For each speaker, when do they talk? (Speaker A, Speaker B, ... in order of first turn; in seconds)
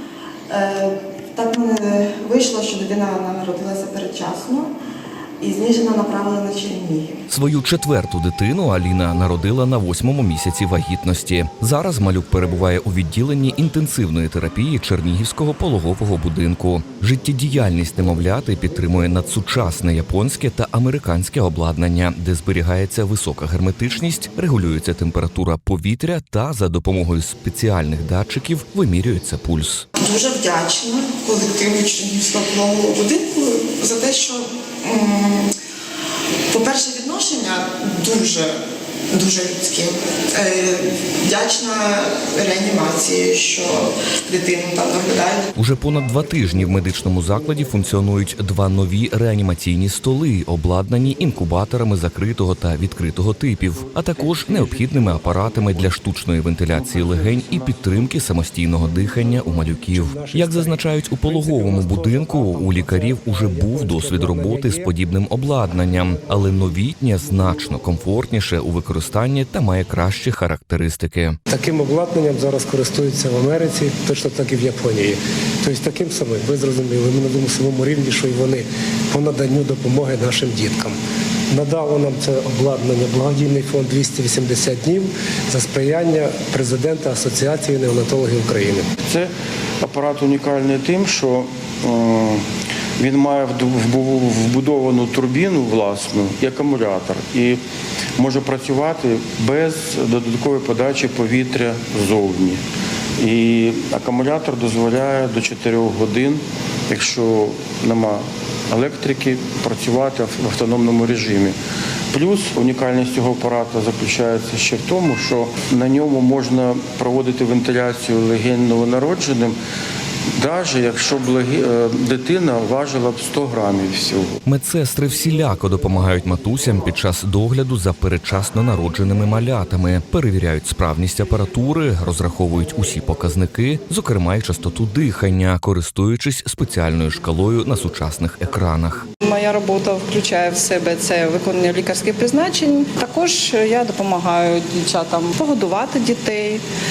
Speaker A: 0.5-4.7, 5.4-7.2, 30.0-35.5, 36.5-38.6, 39.1-45.5
Speaker B: 7.3-29.9, 45.5-71.4, 124.4-139.1
Speaker C: 54.0-56.0, 56.7-58.1, 89.1-92.4, 93.0-97.6, 98.2-102.6, 103.2-111.5, 112.1-119.5, 120.4-124.3
Speaker D: 59.9-65.0, 71.5-81.0, 81.5-88.9
Speaker E: 139.2-146.6